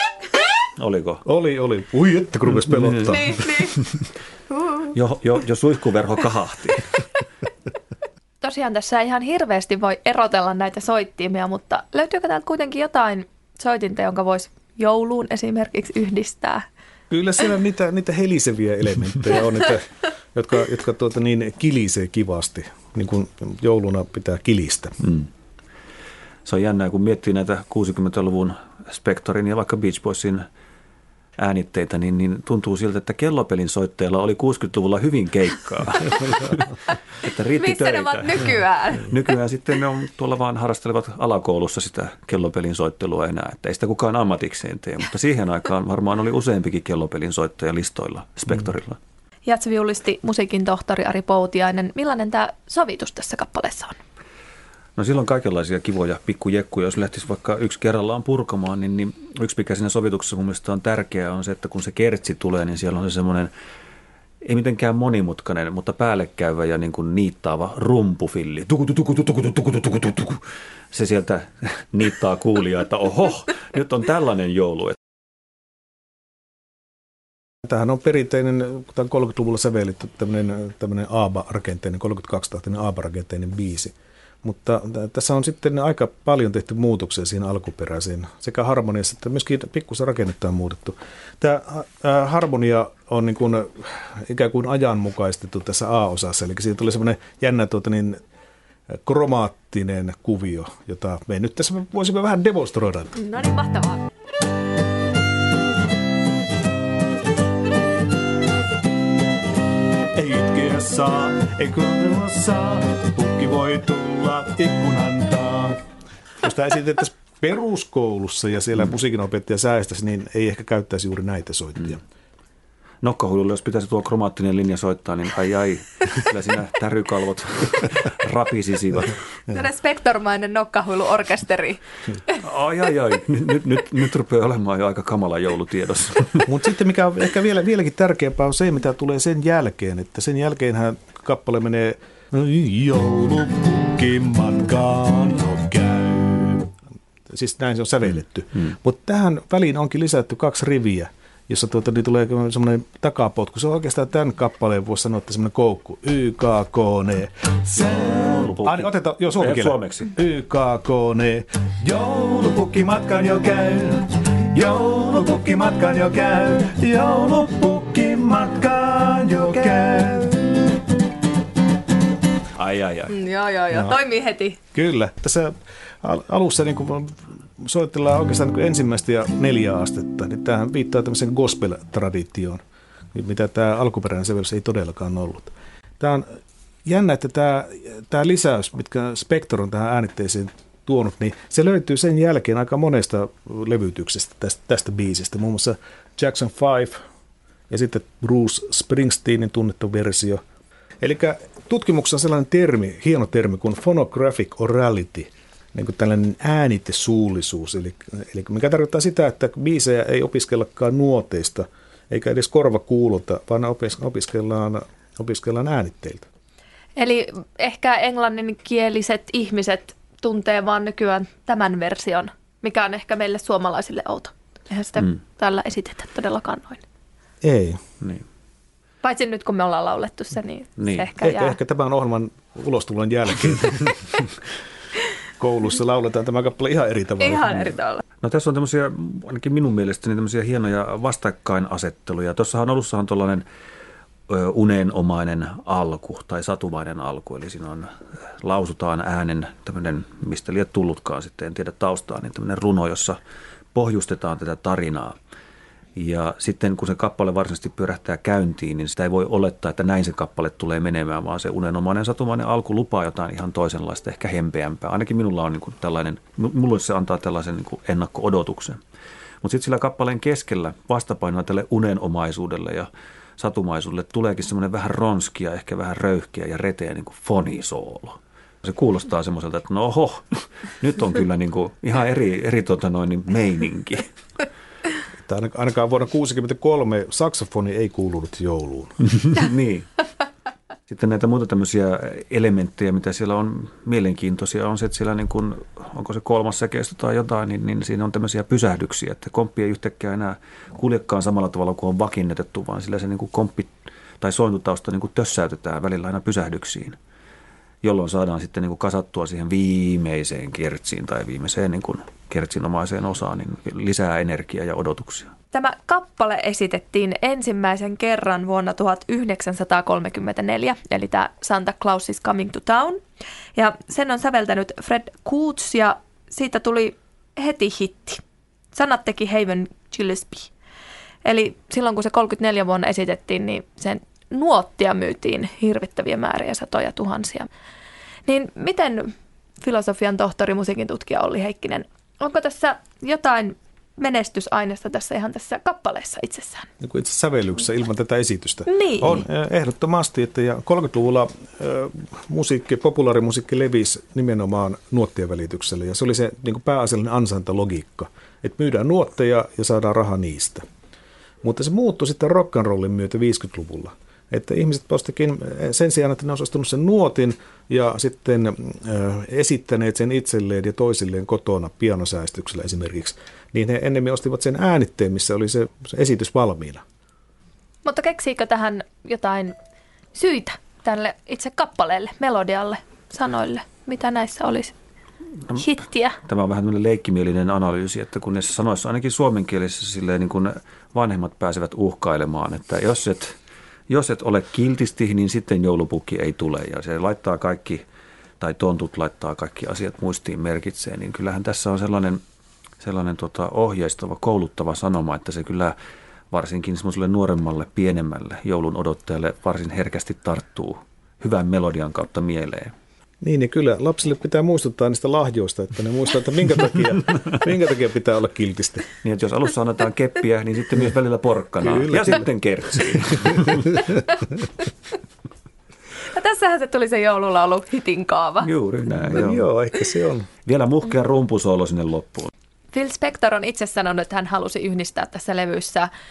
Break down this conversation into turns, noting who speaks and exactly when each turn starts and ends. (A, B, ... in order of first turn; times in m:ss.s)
0:00.8-0:01.2 A
0:01.2-0:03.4 B
0:02.6-0:03.1 A
0:03.1-0:03.8 C
0:04.5-0:04.9 C
0:04.9-0:07.1 A
0:08.4-0:16.6 C
0:17.1-0:25.0 B
0:25.0-0:25.3 A
0:26.4-0:30.4 A
0:31.4-0:49.0 A
0:37.6-0:39.1 C
0:49.4-0:54.0 C
0:55.0-1:03.5 A
1:04.4-1:15.0 A
1:17.6-1:38.2 B
1:38.9-1:43.2 B
1:43.2-1:44.0 C
1:50.1-1:55.8 B
1:56.4-2:02.0 B
2:03.0-2:09.2 A
2:09.5-2:12.3 C
2:12.4-2:16.5 A
2:16.4-2:26.7 B
2:27.3-2:50.7 B
2:37.8-2:40.1 A
2:52.6-2:53.1 A
2:53.1-2:54.6 C
2:53.7-2:54.0 B
2:54.7-3:02.6 B
3:03.1-3:06.2 B
3:06.8-3:17.0 B
3:17.7-3:20.4 B
3:21.0-3:36.2 B
3:37.0-3:46.8 C
3:47.4-3:47.8 B
3:49.0-3:51.6 C
3:50.8-3:51.1 A
3:51.2-3:54.3 B
3:55.4-3:57.7 B
3:57.2-3:58.0 C
3:58.2-4:03.4 A
4:04.3-4:07.9 A
4:08.4-4:13.2 A
4:13.7-4:15.1 A
4:16.0-4:28.8 A
4:29.4-4:44.1 A
4:45.2-4:49.0 B
4:49.2-4:50.1 A
4:50.9-5:07.0 A
5:07.8-5:15.3 A
5:15.5-5:23.0 C
5:23.5-5:28.2 C
5:28.7-5:30.5 C
5:31.2-5:37.5 C
5:38.2-5:46.7 C
5:46.8-6:00.6 B
5:48.6-5:49.2 C
6:01.4-6:16.8 B
6:17.8-6:19.5 C
6:20.1-6:24.7 C
6:25.5-6:26.2 C
6:26.2-6:33.3 A
6:33.9-6:37.8 A
6:38.4-6:42.2 A
6:42.8-6:45.7 A
6:46.3-6:52.7 A
6:53.2-6:58.9 B
6:59.0-7:03.8 A
7:01.6-7:02.2 B
7:06.1-7:08.5 C
7:08.4-7:09.4 A
7:09.1-7:10.3 B
7:10.4-7:12.3 A
7:12.7-7:15.9 C